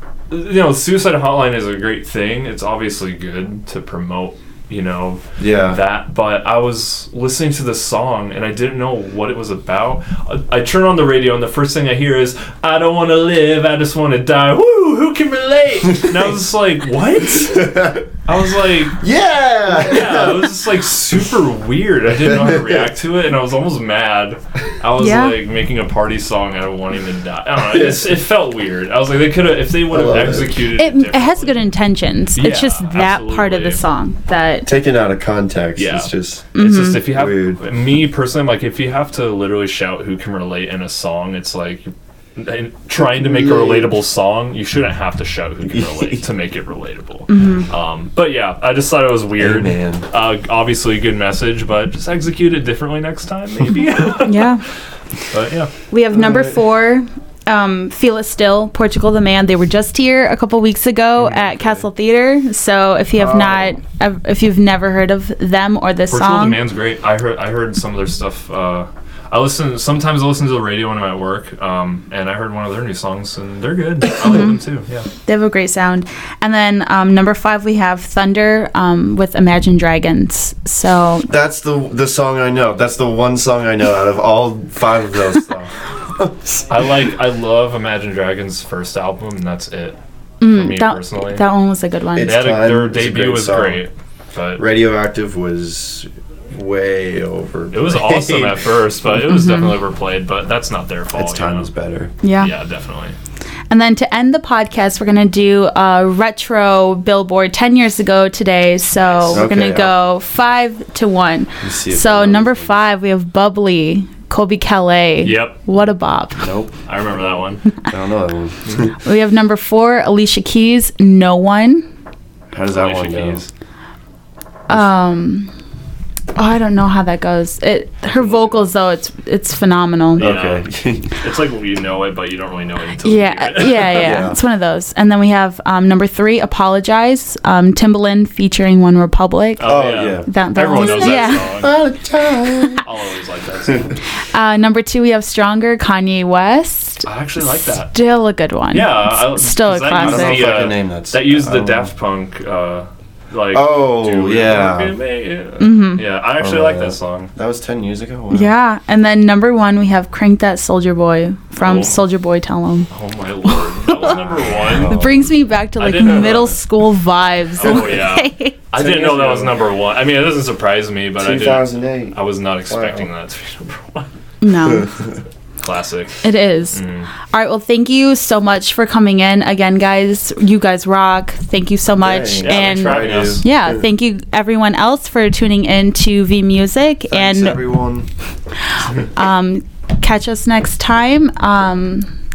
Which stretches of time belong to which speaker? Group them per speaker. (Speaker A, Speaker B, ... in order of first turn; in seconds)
Speaker A: 0.3-19.0, 19.7-31.7, 32.3-33.8, 35.8-54.5, 55.3-55.7, 61.2-61.6, 66.1-75.1, 86.7-91.4, 92.2-94.6, 97.7-101.7, 102.4-103.2, 109.0-109.5, 115.2-115.6, 116.8-117.7, 122.7-123.5, 128.2-128.6, 130.2-134.2, 139.6-141.8, 142.8-144.0, 147.0-148.0, 148.7-157.3, 161.6-162.0, 162.9-165.0, 165.8-166.6, 167.6-174.1, 175.6-177.1, 182.4-183.4
Speaker B: 5.4-5.8, 17.5-18.1, 19.0-20.5, 22.2-22.9, 27.7-28.1, 29.9-30.7, 34.6-37.6, 43.0-44.0, 45.7-46.2, 49.4-50.1, 56.1-56.6, 63.1-63.8, 81.3-86.7, 92.1-93.8, 94.6-98.8, 101.1-102.1, 109.3-110.0, 111.6-112.8, 116.4-116.8, 117.8-118.9, 122.5-123.4, 130.2-131.1, 133.9-134.4, 139.6-142.8, 150.0-151.9, 153.5-155.0, 156.4-158.5, 164.6-165.3, 168.7-169.6, 171.2-173.1, 174.7-175.2, 182.0-183.5, 187.1-188.1
Speaker C: 25.0-25.4, 30.8-34.7, 36.5-37.0, 47.3-47.7, 54.2-54.6, 55.9-66.6, 74.2-74.5, 75.2-81.3, 90.4-92.4, 102.2-102.5, 103.7-116.5, 119.0-121.9, 124.7-125.5, 126.3-130.3, 133.0-141.6, 144.3-147.1, 147.9-150.5, 155.6-156.1, 158.3-162.9, 163.4-168.6, 174.4-174.9, 176.2-187.6, 188.9-192.1